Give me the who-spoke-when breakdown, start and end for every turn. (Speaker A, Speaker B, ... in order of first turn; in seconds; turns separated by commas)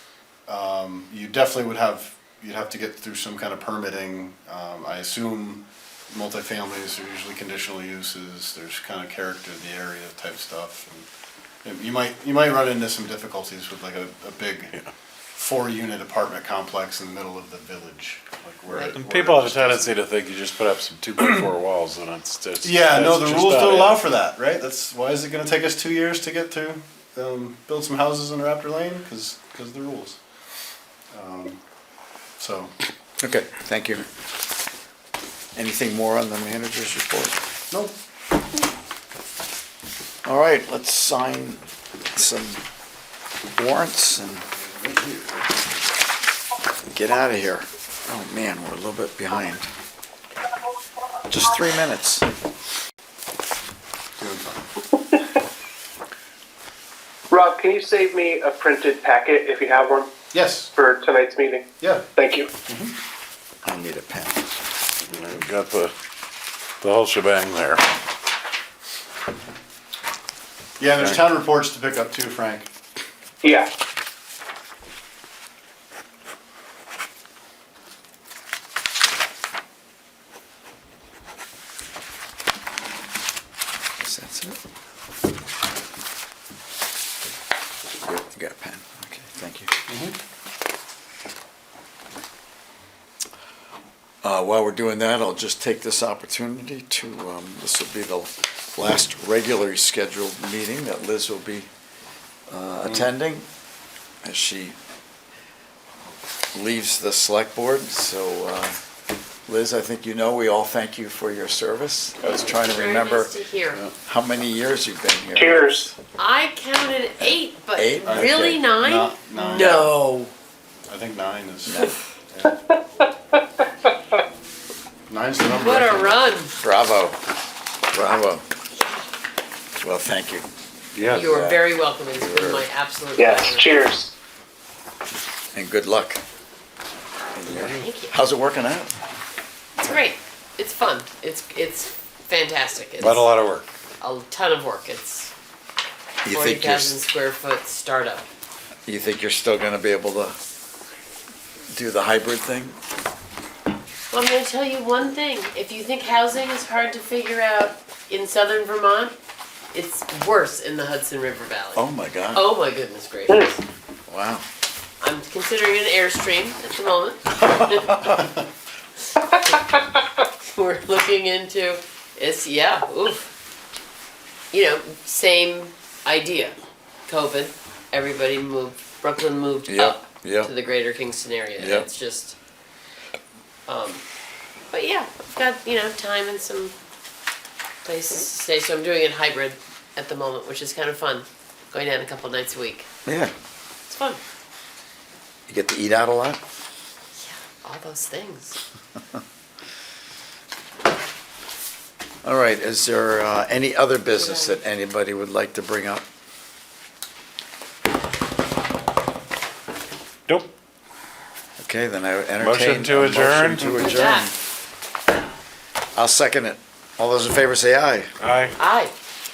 Speaker A: 0.5-11.1, Speaker A: 11.6-14.7, Speaker A: 15.3-19.9, Speaker B: 18.7-19.0, Speaker C: 18.9-24.0, Speaker A: 22.6-30.2, Speaker A: 31.1-31.6, Speaker A: 32.4-32.7, Speaker D: 33.2-34.0, Speaker D: 35.5-37.4, Speaker A: 37.7-38.0, Speaker D: 40.2-41.6, Speaker D: 42.1-42.6, Speaker D: 43.6-44.5, Speaker A: 44.7-45.3, Speaker D: 46.9-49.7, Speaker D: 51.3-52.2, Speaker A: 54.2-54.6, Speaker E: 57.3-60.1, Speaker A: 60.3-60.7, Speaker E: 60.7-62.5, Speaker A: 61.8-62.1, Speaker A: 62.7-62.9, Speaker D: 63.6-64.4, Speaker C: 65.1-65.9, Speaker C: 66.8-67.8, Speaker A: 70.8-72.7, Speaker E: 73.4-73.7, Speaker D: 84.0-84.6, Speaker D: 88.0-89.7, Speaker A: 89.9-90.2, Speaker D: 94.2-101.7, Speaker D: 102.5-103.5, Speaker D: 104.2-104.8, Speaker D: 106.5-108.8, Speaker D: 109.5-113.3, Speaker C: 112.2-112.5, Speaker B: 112.3-113.8, Speaker D: 114.0-115.9, Speaker E: 115.3-115.9, Speaker B: 116.2-120.3, Speaker D: 117.2-118.6, Speaker A: 118.0-119.9, Speaker A: 120.9-121.8, Speaker D: 121.7-122.0, Speaker A: 122.3-122.6, Speaker A: 125.1-126.2, Speaker B: 125.5-126.5, Speaker D: 126.6-127.2, Speaker D: 127.9-128.4, Speaker D: 129.8-130.4, Speaker C: 130.9-131.2, Speaker B: 131.1-133.7, Speaker D: 131.1-132.7, Speaker E: 133.2-134.1, Speaker D: 135.5-136.2, Speaker D: 137.3-138.9, Speaker B: 137.5-138.2, Speaker B: 139.8-143.3, Speaker C: 143.0-143.7, Speaker B: 144.0-145.3, Speaker D: 146.2-146.9, Speaker B: 146.3-148.2, Speaker D: 148.9-150.3, Speaker D: 151.7-152.8, Speaker B: 154.1-159.1, Speaker B: 159.7-163.6, Speaker D: 161.7-162.4, Speaker D: 164.1-164.4, Speaker B: 165.0-168.4, Speaker B: 169.2-169.8, Speaker B: 170.5-173.3, Speaker B: 174.5-176.5, Speaker B: 177.1-182.3, Speaker D: 179.7-180.5, Speaker D: 181.6-181.9, Speaker B: 183.7-184.0, Speaker B: 184.7-186.7, Speaker B: 187.8-192.9, Speaker D: 193.0-193.3, Speaker B: 193.9-194.2, Speaker D: 195.5-196.4, Speaker B: 197.2-198.6, Speaker D: 202.2-206.0, Speaker B: 204.1-204.6, Speaker D: 211.6-214.3, Speaker C: 212.4-213.8, Speaker B: 213.7-214.3, Speaker D: 215.9-218.1, Speaker C: 218.2-218.6, Speaker B: 218.6-218.9